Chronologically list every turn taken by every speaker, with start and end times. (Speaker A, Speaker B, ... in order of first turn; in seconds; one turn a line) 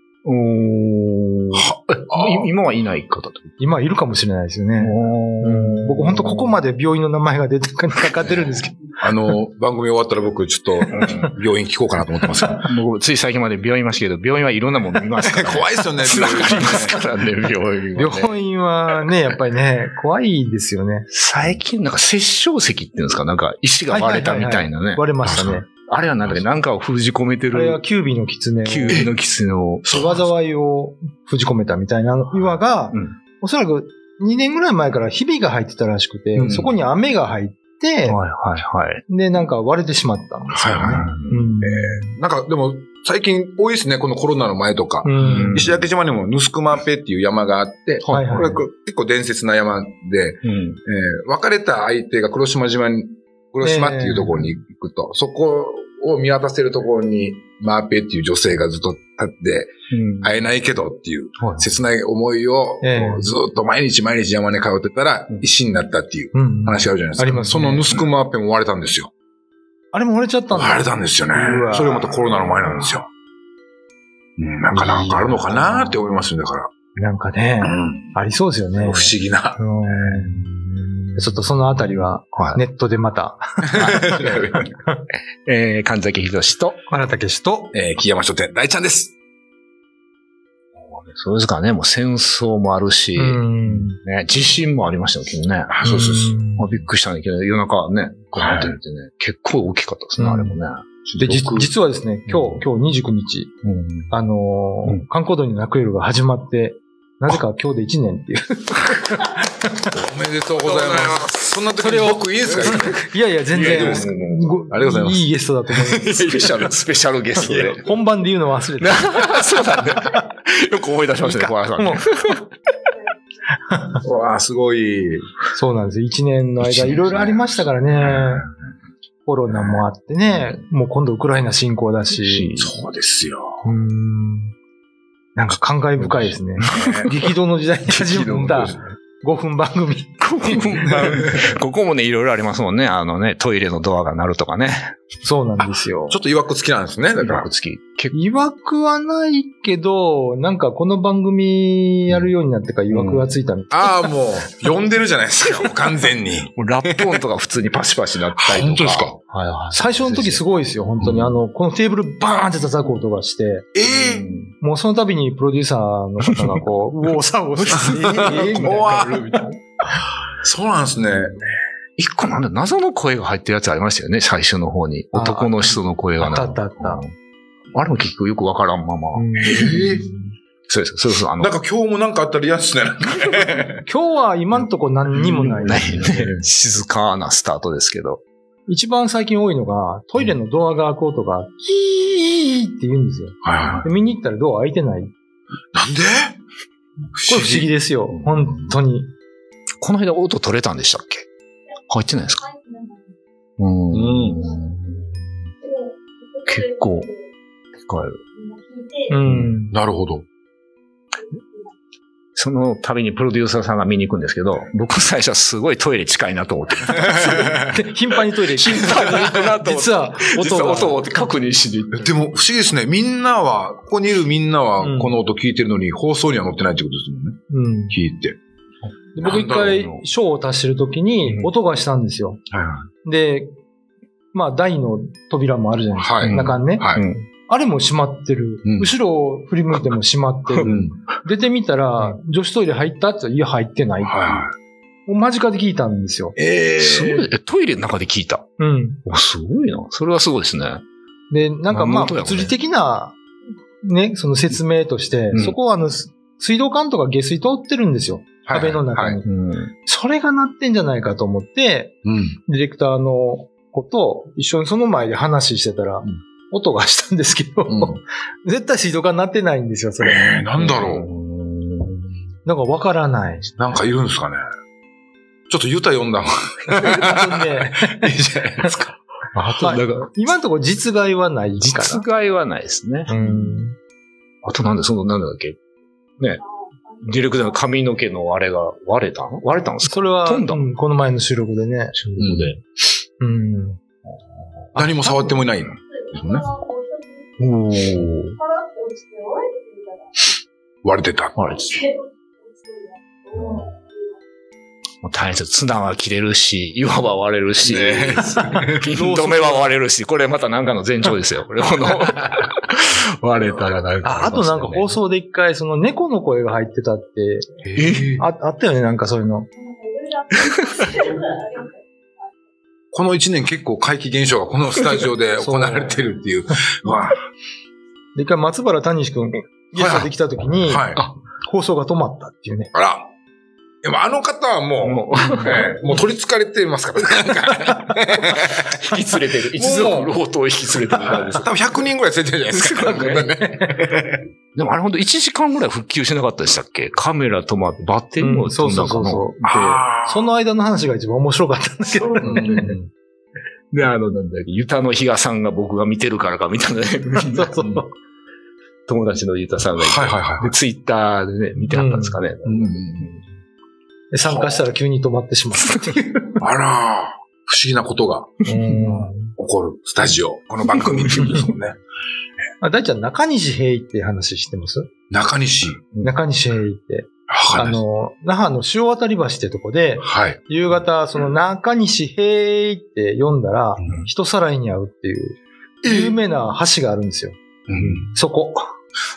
Speaker A: 0.2-3.6
Speaker B: 1.5-2.5
Speaker C: 3.6-8.8
Speaker A: 4.8-6.6
Speaker B: 9.0-12.7
Speaker A: 10.9-11.3
Speaker A: 12.4-18.3
Speaker B: 15.2-17.0
Speaker C: 17.9-21.1
Speaker A: 21.1-27.8
Speaker C: 23.9-25.7
Speaker B: 25.2-25.6
Speaker C: 27.5-29.1
Speaker A: 28.6-29.9
Speaker B: 29.8-30.2
Speaker C: 29.9-38.2
Speaker A: 32.3-33.1
Speaker B: 36.3-36.7
Speaker A: 36.5-36.8
Speaker A: 38.1-39.0
Speaker C: 39.1-42.1
Speaker B: 40.5-69.1
Speaker A: 40.6-41.5
Speaker C: 45.0-45.7
Speaker A: 45.2-45.8
Speaker A: 48.0-48.5
Speaker C: 48.0-48.6
Speaker A: 50.4-50.8
Speaker C: 53.6-54.4
Speaker A: 59.9-60.5
Speaker A: 61.4-61.8
Speaker C: 62.8-63.3
Speaker C: 66.3-68.0
Speaker C: 69.9-72.9
Speaker B: 70.5-73.1
Speaker B: 74.4-76.7
Speaker C: 74.7-76.3
Speaker C: 76.9-80.5
Speaker B: 77.6-78.2
Speaker B: 78.8-79.6
Speaker A: 79.9-82.6
Speaker C: 81.1-85.0
Speaker A: 83.7-84.7
Speaker B: 83.8-84.6
Speaker A: 85.4-86.8
Speaker C: 86.9-87.7
Speaker B: 87.7-89.1
Speaker A: 90.8-95.8
Speaker C: 93.2-94.0
Speaker B: 95.7-96.4
Speaker C: 95.8-96.7
Speaker A: 96.5-100.8
Speaker B: 98.4-98.7
Speaker C: 100.2-100.6
Speaker B: 101.0-101.7
Speaker C: 101.2-103.5
Speaker A: 102.3-102.6
Speaker A: 103.6-104.1
Speaker C: 104.1-109.9
Speaker B: 110.0-113.0
Speaker A: 110.5-111.6
Speaker C: 111.8-116.4
Speaker A: 112.4-114.6
Speaker B: 113.6-114.1
Speaker B: 114.7-115.3
Speaker A: 116.0-117.9
Speaker C: 117.4-119.4
Speaker A: 118.8-122.4
Speaker C: 121.2-122.0
Speaker C: 123.7-124.0
Speaker B: 124.0-125.3
Speaker C: 125.5-128.4
Speaker A: 126.6-127.2
Speaker B: 126.9-127.4
Speaker B: 127.9-128.5
Speaker C: 129.2-132.5
Speaker B: 129.5-129.8
Speaker A: 132.2-132.8
Speaker B: 132.6-133.7
Speaker C: 133.6-134.5
Speaker C: 135.3-141.2
Speaker A: 136.0-137.3
Speaker B: 136.7-137.1
Speaker A: 137.9-138.8
Speaker A: 140.2-144.9
Speaker C: 145.2-146.2
Speaker B: 145.6-147.5
Speaker A: 147.2-148.1
Speaker C: 148.1-153.9
Speaker A: 152.9-153.3
Speaker B: 153.7-157.2
Speaker A: 156.6-160.4
Speaker B: 158.4-159.2
Speaker C: 159.7-163.7
Speaker B: 161.0-161.4
Speaker B: 163.7-164.3
Speaker A: 163.8-164.5
Speaker C: 164.6-169.5
Speaker A: 167.6-169.6
Speaker B: 167.7-169.4
Speaker B: 170.2-171.5
Speaker A: 172.0-177.1
Speaker C: 175.1-175.7
Speaker C: 176.2-177.0
Speaker A: 177.7-179.9
Speaker C: 179.1-180.3
Speaker B: 179.4-180.1
Speaker A: 180.7-181.5
Speaker B: 181.4-183.8
Speaker C: 183.8-186.2
Speaker A: 185.1-188.2
Speaker B: 186.0-186.4
Speaker C: 188.7-195.1
Speaker B: 193.4-193.9
Speaker B: 195.7-196.4
Speaker B: 197.1-197.7
Speaker C: 197.3-199.1
Speaker A: 198.1-198.8
Speaker A: 199.8-201.2
Speaker A: 201.9-202.5
Speaker A: 203.6-205.5
Speaker B: 203.9-204.4
Speaker A: 206.4-207.1
Speaker A: 207.8-208.2
Speaker C: 209.1-209.7
Speaker A: 209.2-209.5
Speaker B: 209.7-210.2
Speaker A: 212.3-217.5
Speaker B: 217.0-217.6
Speaker C: 217.1-221.1
Speaker A: 218.5-222.1
Speaker B: 221.9-227.4
Speaker C: 224.8-225.2
Speaker C: 227.5-228.0
Speaker B: 227.9-228.4
Speaker C: 229.2-232.4
Speaker B: 229.2-229.9
Speaker A: 231.2-231.5
Speaker B: 232.5-232.9
Speaker C: 233.0-233.5
Speaker C: 234.3-244.4
Speaker B: 235.9-237.1
Speaker A: 236.2-237.2
Speaker B: 238.6-238.9
Speaker A: 240.5-240.8
Speaker B: 240.6-241.0
Speaker B: 244.0-244.5
Speaker C: 245.1-246.3
Speaker B: 246.3-247.3
Speaker A: 246.8-248.4
Speaker C: 248.6-249.0
Speaker A: 249.1-250.8
Speaker C: 251.3-253.2
Speaker A: 251.7-252.5
Speaker C: 253.8-259.2
Speaker B: 258.4-259.2
Speaker A: 259.2-259.7
Speaker C: 259.8-270.7
Speaker B: 262.0-262.4
Speaker B: 267.7-268.0
Speaker B: 270.0-271.1
Speaker A: 270.6-272.1
Speaker C: 272.4-273.5
Speaker B: 273.6-274.4
Speaker B: 275.5-278.9
Speaker C: 276.8-278.1
Speaker C: 279.4-282.0
Speaker A: 279.4-280.1
Speaker A: 281.6-283.6
Speaker C: 283.1-283.8
Speaker A: 284.4-285.6
Speaker A: 287.0-290.6
Speaker C: 289.9-292.0
Speaker A: 291.9-292.6
Speaker B: 292.2-292.6
Speaker C: 293.2-293.8
Speaker C: 294.7-295.4
Speaker B: 294.8-296.5
Speaker A: 297.4-298.4
Speaker B: 300.8-301.3
Speaker A: 301.4-301.9
Speaker A: 303.3-303.7
Speaker A: 305.0-314.9
Speaker B: 307.6-308.8
Speaker C: 308.3-309.7
Speaker C: 314.0-317.6
Speaker B: 317.6-318.2
Speaker A: 317.8-318.2
Speaker C: 318.2-319.5
Speaker A: 320.4-321.1
Speaker B: 322.9-327.2
Speaker C: 325.4-326.1
Speaker C: 328.1-332.7
Speaker B: 329.8-330.1
Speaker B: 330.6-331.0
Speaker B: 332.7-333.1
Speaker B: 333.8-338.6
Speaker A: 334.8-335.8
Speaker A: 338.3-341.5
Speaker B: 339.5-340.1
Speaker B: 341.0-344.2
Speaker A: 342.5-343.3
Speaker A: 344.5-349.8
Speaker C: 348.2-349.4
Speaker B: 349.4-350.3
Speaker C: 349.9-352.8
Speaker A: 352.2-352.6
Speaker B: 352.2-352.9
Speaker A: 353.7-357.8
Speaker C: 357.3-357.9
Speaker A: 358.9-363.2
Speaker B: 359.8-360.5
Speaker C: 361.6-362.2
Speaker B: 362.4-363.1
Speaker C: 364.1-366.4
Speaker B: 364.2-364.6
Speaker B: 366.4-368.4
Speaker C: 368.4-369.3
Speaker A: 368.6-369.0
Speaker B: 369.4-371.8
Speaker A: 370.6-371.5
Speaker C: 371.2-371.4
Speaker C: 372.6-374.9
Speaker B: 375.1-375.9
Speaker C: 376.0-387.4
Speaker B: 377.3-377.8
Speaker B: 380.0-380.4
Speaker B: 383.8-384.1
Speaker B: 385.8-386.2
Speaker B: 387.7-388.1
Speaker C: 388.0-388.7